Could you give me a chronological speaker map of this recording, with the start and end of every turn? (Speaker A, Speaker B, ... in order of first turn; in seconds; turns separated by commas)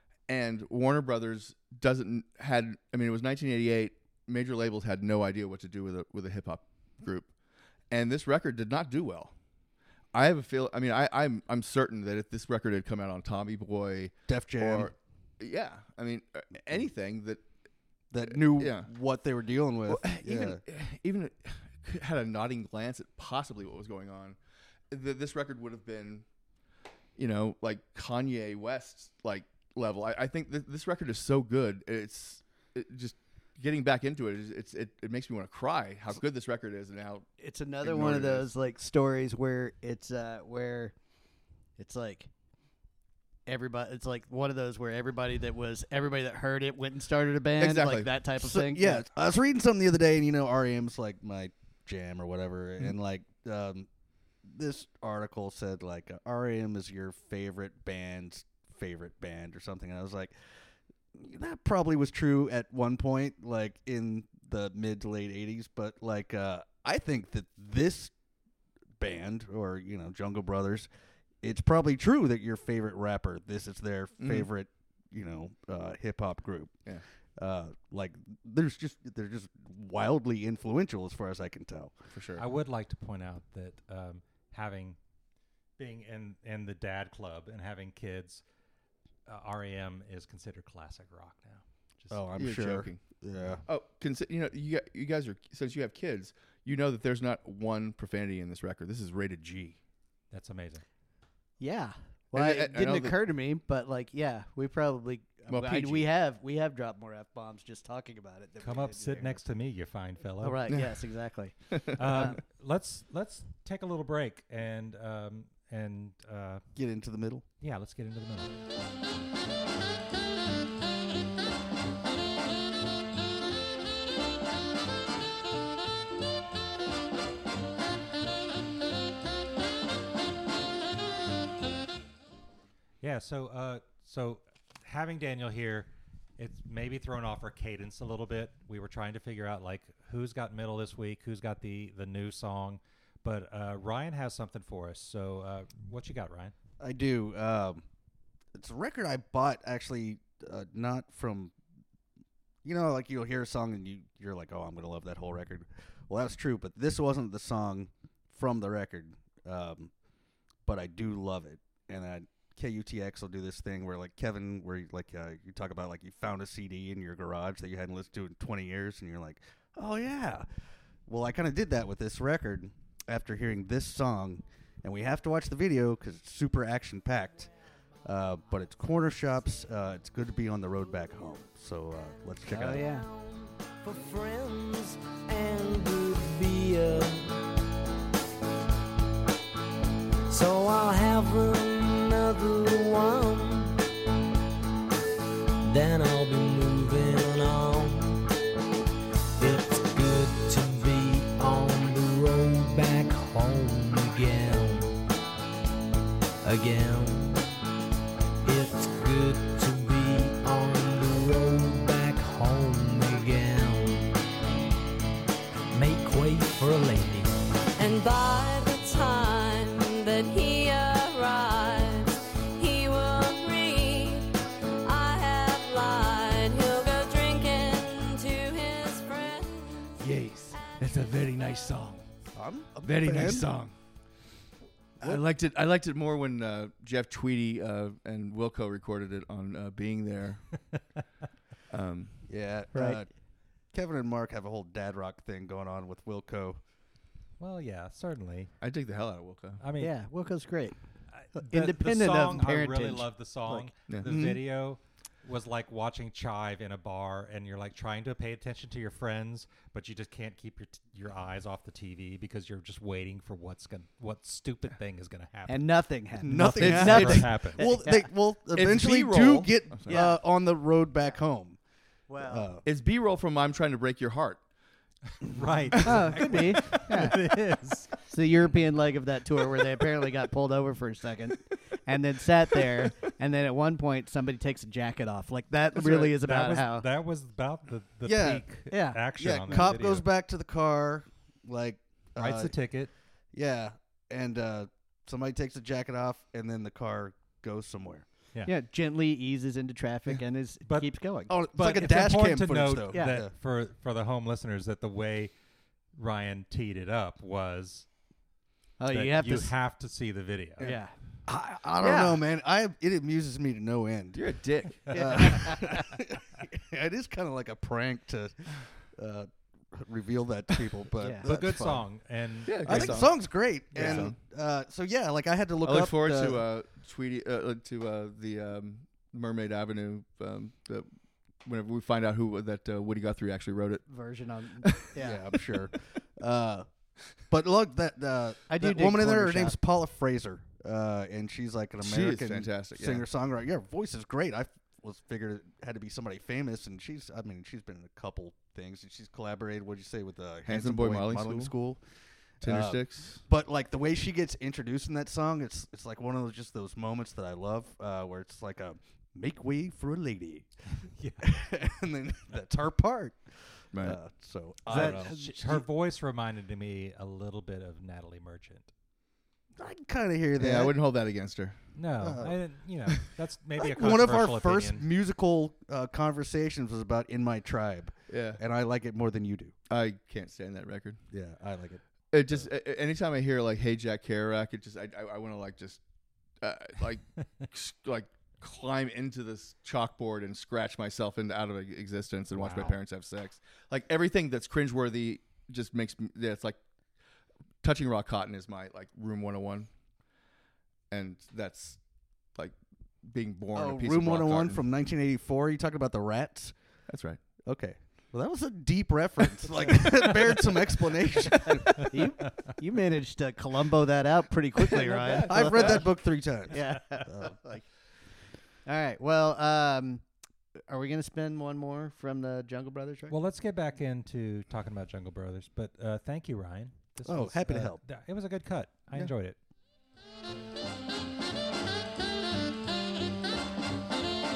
Speaker A: 0.3-7.3, Speaker A: 7.9-9.3, Speaker A: 10.1-17.4, Speaker B: 14.3-14.9, Speaker B: 18.1-20.6, Speaker A: 18.3-18.9, Speaker A: 19.9-24.4, Speaker A: 24.9-26.2, Speaker A: 27.2-37.3, Speaker C: 37.4-40.9, Speaker A: 37.8-38.5, Speaker C: 41.8-42.3, Speaker C: 43.5-49.0, Speaker A: 47.6-48.1, Speaker B: 48.4-53.9, Speaker B: 54.4-60.3, Speaker B: 61.1-68.1, Speaker B: 69.0-70.9, Speaker B: 71.4-76.8, Speaker A: 74.2-74.5, Speaker B: 77.4-81.9, Speaker A: 82.1-82.4, Speaker D: 82.4-85.0, Speaker D: 85.8-88.4, Speaker D: 89.2-92.3, Speaker B: 92.1-93.6, Speaker A: 92.4-93.0, Speaker A: 93.6-99.8, Speaker D: 100.3-100.8, Speaker C: 101.6-109.4, Speaker A: 102.3-103.2, Speaker A: 105.5-106.1, Speaker D: 108.6-110.6, Speaker C: 110.4-112.4, Speaker D: 112.0-116.6, Speaker B: 116.8-117.4, Speaker D: 117.6-118.5, Speaker D: 133.0-146.5, Speaker B: 146.8-147.8, Speaker B: 148.5-151.5, Speaker B: 152.6-159.9, Speaker B: 160.7-170.5, Speaker B: 171.1-177.5, Speaker B: 178.0-182.9, Speaker C: 182.5-183.1, Speaker E: 182.8-187.5, Speaker E: 190.3-193.8, Speaker E: 195.6-198.3, Speaker E: 199.4-205.0, Speaker E: 206.4-207.5, Speaker E: 208.4-214.2, Speaker E: 215.7-217.4, Speaker F: 217.8-230.0, Speaker B: 232.3-233.6, Speaker C: 233.1-233.4, Speaker A: 235.0-240.6, Speaker A: 241.7-242.2, Speaker B: 242.3-243.1, Speaker C: 242.7-243.0, Speaker B: 243.7-246.6, Speaker D: 247.4-248.5, Speaker A: 248.6-249.6, Speaker D: 249.6-249.9, Speaker C: 249.8-250.8, Speaker D: 251.1-265.7, Speaker C: 251.3-253.7, Speaker B: 254.0-254.4, Speaker C: 265.5-268.1, Speaker B: 266.2-271.6, Speaker D: 266.6-267.6, Speaker A: 266.6-267.3, Speaker A: 268.5-270.0, Speaker C: 269.9-270.2, Speaker C: 272.1-272.5, Speaker B: 272.2-272.6, Speaker A: 272.6-274.4, Speaker D: 275.2-278.0, Speaker C: 275.8-277.3, Speaker C: 278.0-286.9, Speaker B: 285.8-286.1, Speaker D: 285.9-290.0, Speaker B: 288.0-288.4, Speaker C: 288.7-289.0, Speaker B: 289.1-292.6, Speaker D: 292.2-292.9, Speaker B: 293.3-298.0, Speaker C: 298.4-301.3, Speaker B: 301.3-303.3, Speaker D: 301.5-305.3, Speaker C: 302.9-303.2, Speaker D: 305.9-307.9, Speaker C: 308.8-309.5, Speaker D: 308.9-310.8, Speaker C: 310.6-310.9, Speaker B: 311.3-314.3, Speaker C: 311.8-312.2, Speaker A: 314.1-315.0, Speaker B: 314.9-321.9, Speaker C: 314.9-315.9, Speaker C: 321.0-321.2, Speaker D: 321.2-323.0, Speaker A: 322.4-324.2, Speaker B: 322.6-326.4, Speaker C: 323.7-324.1, Speaker A: 325.6-330.9, Speaker A: 331.4-333.9, Speaker C: 333.9-335.2, Speaker B: 334.9-336.7, Speaker B: 337.3-351.8, Speaker C: 338.5-339.6, Speaker A: 341.8-343.0, Speaker A: 350.4-351.5, Speaker B: 352.4-360.5, Speaker A: 352.4-353.2, Speaker D: 360.8-361.3, Speaker B: 361.2-365.6, Speaker A: 363.7-364.0, Speaker C: 364.7-365.4, Speaker D: 364.7-368.7, Speaker B: 369.6-370.8, Speaker A: 370.4-371.6, Speaker D: 371.7-374.9, Speaker B: 372.0-372.4, Speaker B: 373.6-379.5, Speaker A: 378.1-378.4, Speaker A: 379.7-381.0, Speaker B: 381.1-382.4, Speaker A: 382.1-385.8, Speaker A: 386.4-396.6, Speaker D: 392.3-392.7, Speaker A: 397.6-399.7, Speaker A: 400.9-401.8, Speaker A: 402.3-404.6, Speaker B: 403.5-406.5, Speaker A: 406.9-407.2, Speaker B: 407.4-411.9, Speaker C: 411.7-415.9, Speaker A: 414.7-415.9, Speaker B: 415.2-417.4, Speaker C: 416.5-417.6, Speaker C: 418.6-420.0, Speaker C: 420.7-423.2, Speaker D: 423.1-429.4, Speaker B: 427.0-427.8